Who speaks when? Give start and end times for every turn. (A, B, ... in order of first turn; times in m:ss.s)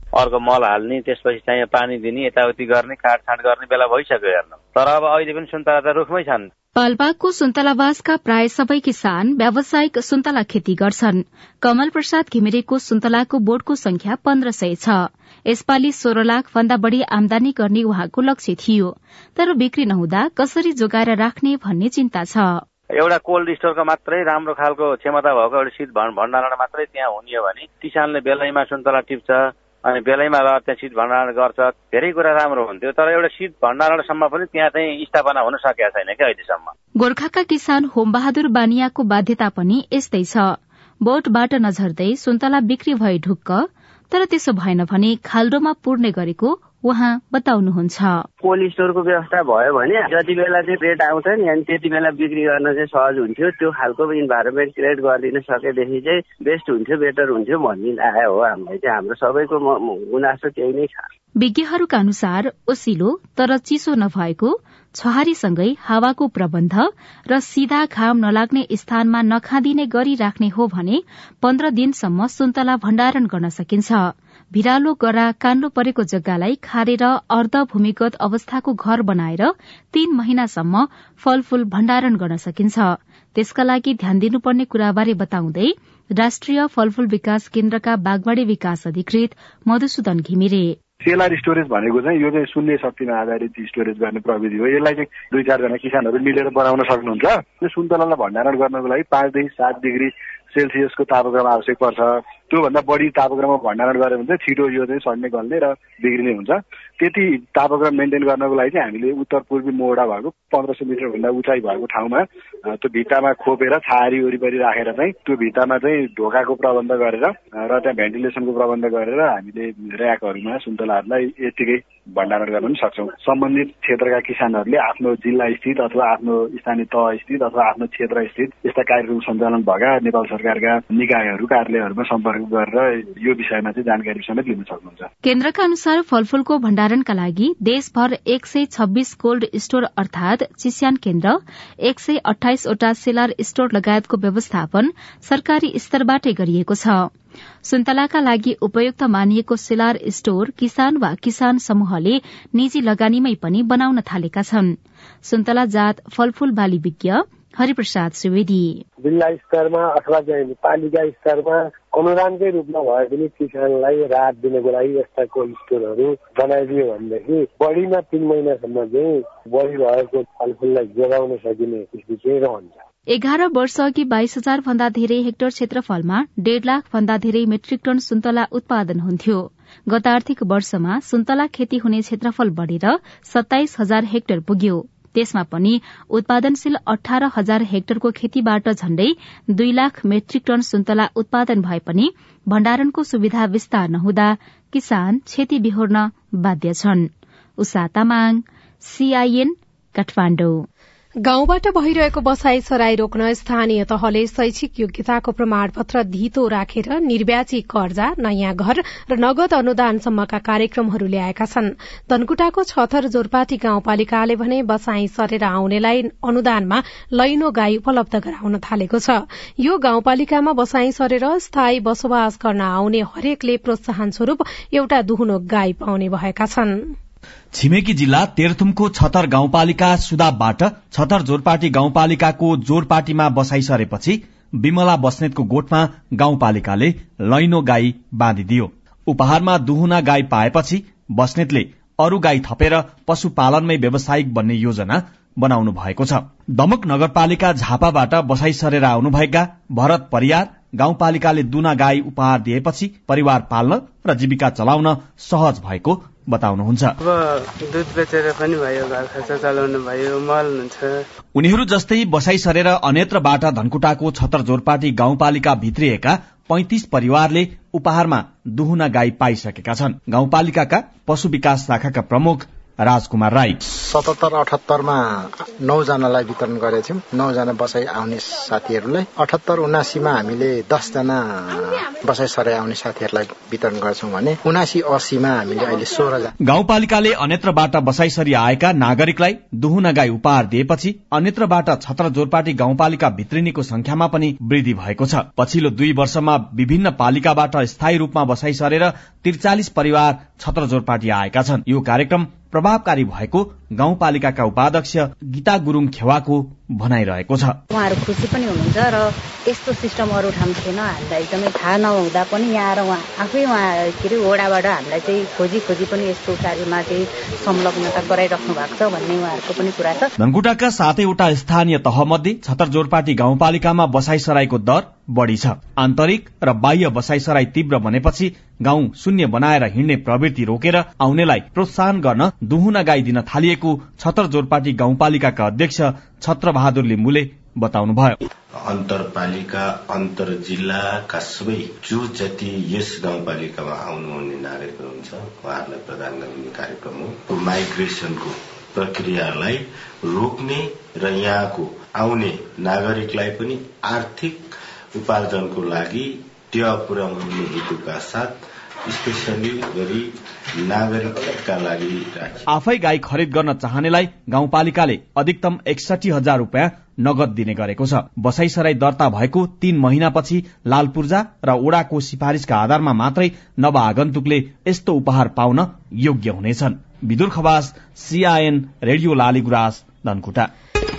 0:00.2-0:06.5 A
0:06.8-0:22.6 B
0:22.9-0:36.7 A
0:37.0-0:48.2 B
0:48.4-1:01.1 C
1:01.4-1:30.8 B
1:31.0-2:15.1 D
2:15.2-2:27.1 B
2:27.6-2:38.8 B
2:39.0-2:52.8 E
2:53.1-3:17.1 B
3:17.6-3:20.6 B
3:21.2-3:46.9 F
3:47.5-4:16.9 G
4:17.0-4:21.0 H
4:21.4-4:33.6 G
4:33.7-4:46.3 I
4:46.4-5:07.6 G
5:07.7-5:20.1 J
5:20.2-5:38.2 G
5:38.6-6:02.5 K
6:02.5-6:20.5 G